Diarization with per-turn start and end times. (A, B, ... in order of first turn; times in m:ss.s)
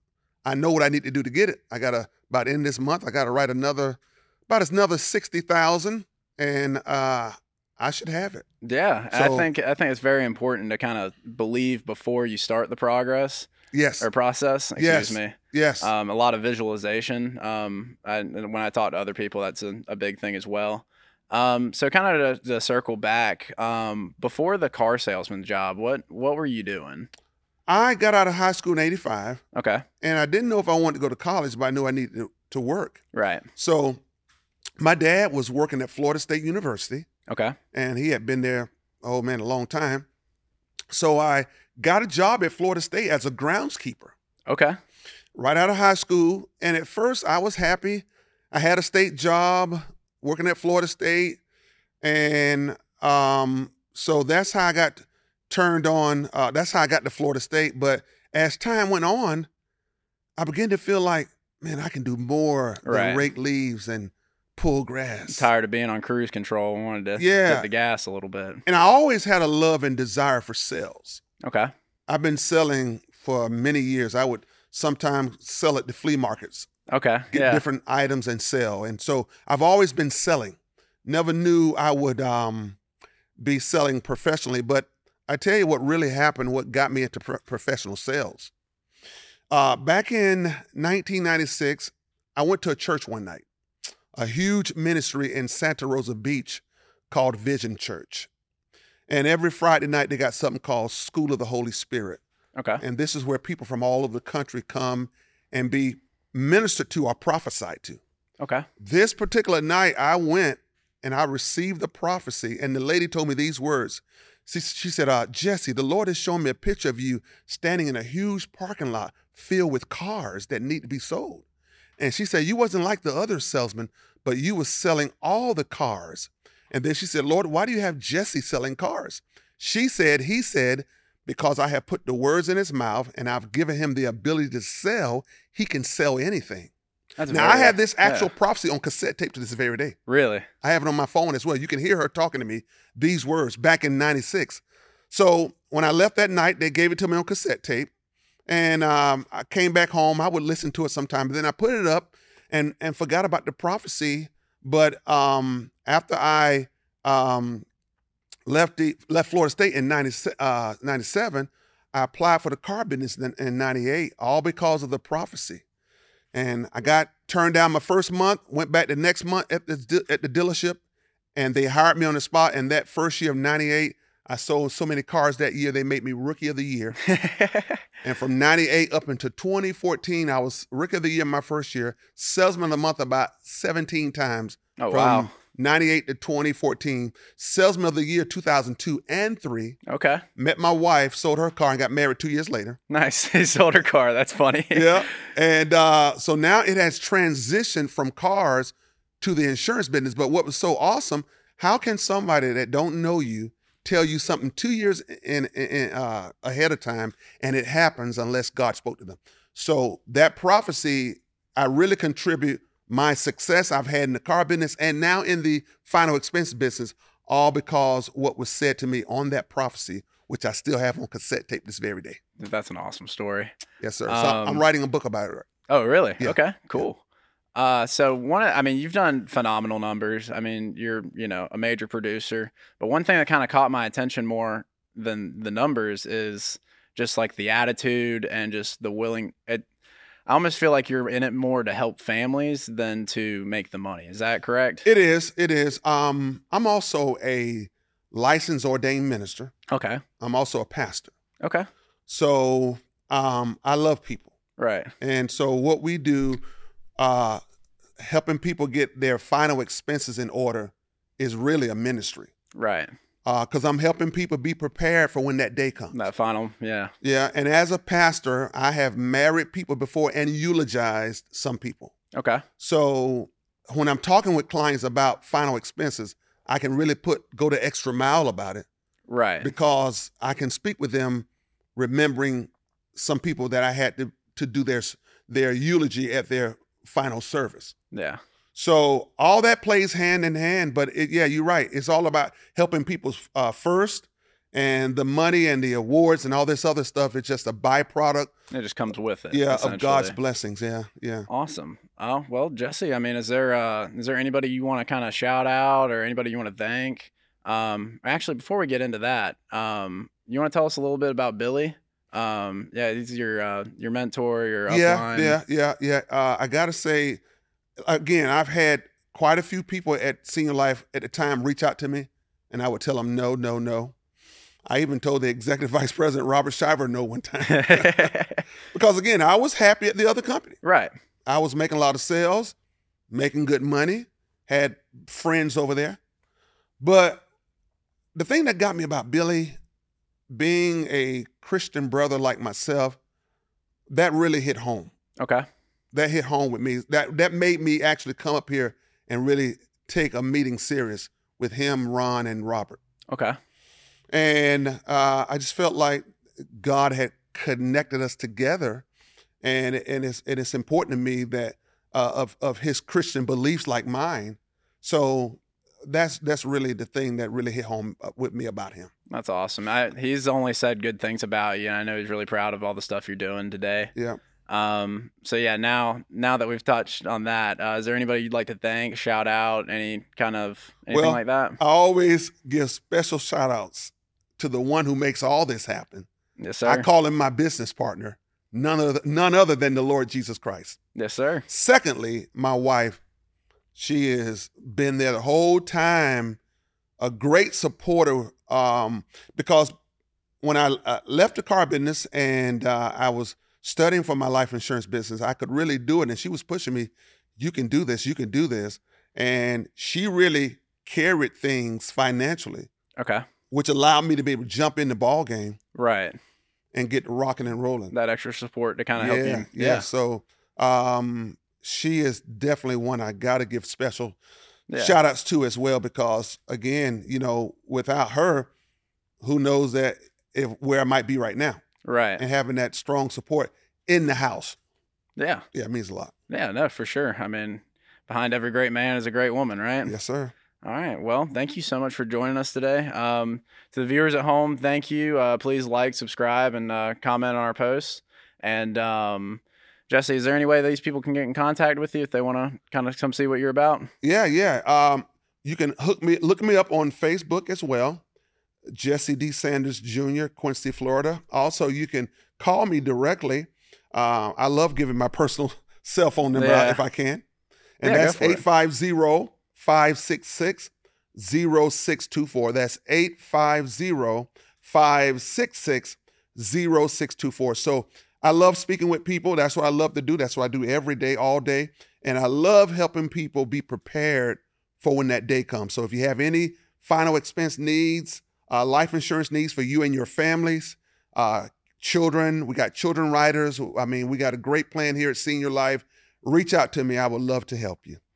0:00.4-0:08.4 A
0:08.6-0:13.5 B
0:09.1-0:09.5 A
0:13.7-0:14.1 A
0:14.0-0:27.1 B
0:14.8-0:15.9 A
0:27.7-0:29.4 A
0:29.5-0:29.8 B
0:30.0-0:33.0 A
0:33.1-0:33.5 B
0:33.5-0:34.0 A
0:34.8-0:37.1 A
0:37.3-0:37.6 B
0:37.7-0:40.0 A
0:40.9-0:44.1 A
0:44.5-0:44.8 B
0:45.3-0:51.4 A
0:52.0-0:59.5 A
1:00.4-1:05.5 A
1:02.8-1:03.3 B
1:05.3-1:08.6 B
1:07.2-1:07.7 A
1:08.6-1:11.2 A
1:11.4-1:11.7 B
1:12.1-1:16.7 A
1:16.9-1:17.6 B
1:17.3-1:22.8 A
1:23.4-1:28.5 A
1:29.5-1:33.4 A
1:34.1-1:38.3 A
1:39.1-1:42.2 A
1:42.5-1:42.8 B
1:42.8-1:48.0 A
1:48.4-1:48.6 B
1:48.8-2:01.4 A
2:02.0-2:16.7 A
2:17.2-2:18.3 B
2:17.3-2:20.0 A
2:20.1-2:20.4 B
2:20.6-2:27.9 A
2:28.5-2:37.6 A
2:38.5-2:45.6 A
2:46.3-2:50.8 A
2:51.3-2:57.0 A
2:57.1-2:57.8 B
2:58.0-3:09.8 A
3:04.8-3:05.3 B
3:09.9-3:10.2 B
3:10.4-3:12.8 A
3:12.9-3:15.2 B
3:14.7-3:42.2 A
3:42.4-3:43.5 B
3:43.8-3:45.5 A
3:44.1-3:44.6 B
3:45.7-3:47.0 B
3:46.2-3:46.8 A
3:47.5-3:59.6 B
4:00.3-4:04.8 B
4:04.8-4:09.5 A
4:09.7-4:10.0 B
4:10.2-4:11.1 A
4:11.4-4:11.7 B
4:12.1-4:14.3 A
4:14.6-4:14.9 B
4:15.0-4:16.4 A
4:17.0-4:17.4 A
4:18.0-4:22.3 A
4:22.5-4:22.9 B
4:23.2-4:26.0 A
4:25.9-4:26.9 B
4:27.0-4:31.9 A
4:32.1-4:32.4 B
4:32.6-4:38.6 A
4:39.1-4:39.5 B
4:39.4-4:47.7 A
4:47.9-4:48.2 B
4:48.5-4:58.3 A
4:58.5-5:00.2 B
4:59.3-5:01.3 A
5:01.3-5:15.4 B
5:14.7-5:17.2 A
5:17.8-5:23.9 A
5:24.7-5:28.1 A
5:27.4-5:28.4 B
5:28.7-5:30.6 A
5:30.6-5:30.9 B
5:31.2-5:32.5 A
5:33.1-5:36.0 A
5:36.8-5:37.2 A
5:38.1-5:39.6 A
5:40.3-5:43.0 A
5:43.9-5:44.9 A
5:45.2-5:45.4 B
5:45.9-5:52.8 A
5:53.1-5:53.3 B
5:54.1-5:56.0 A
5:56.6-5:58.8 A
5:59.4-6:08.9 A
6:09.1-6:13.9 B
6:14.5-6:21.6 B
6:20.9-6:26.1 A
6:26.4-6:26.9 B
6:26.6-6:30.8 A
6:30.9-6:31.5 B
6:31.5-6:33.0 A
6:33.7-6:36.4 A
6:37.0-6:39.7 A
6:40.4-6:52.7 A
6:53.0-6:53.2 B
6:53.5-6:55.6 A
6:55.7-6:56.2 B
6:56.7-6:57.9 A
6:57.9-6:59.8 B
6:59.0-7:04.2 A
7:04.7-7:05.0 B
7:04.8-7:08.5 A
7:09.2-7:11.6 A
7:11.8-7:12.2 B
7:12.2-7:14.6 A
7:15.2-7:15.4 B
7:15.5-7:16.1 A
7:16.3-7:19.9 B
7:19.8-7:20.3 A
7:20.6-7:33.9 B
7:34.0-7:38.0 A
7:38.7-7:47.2 A
7:46.3-7:46.8 B
7:47.8-8:18.0 A
7:47.8-7:48.4 B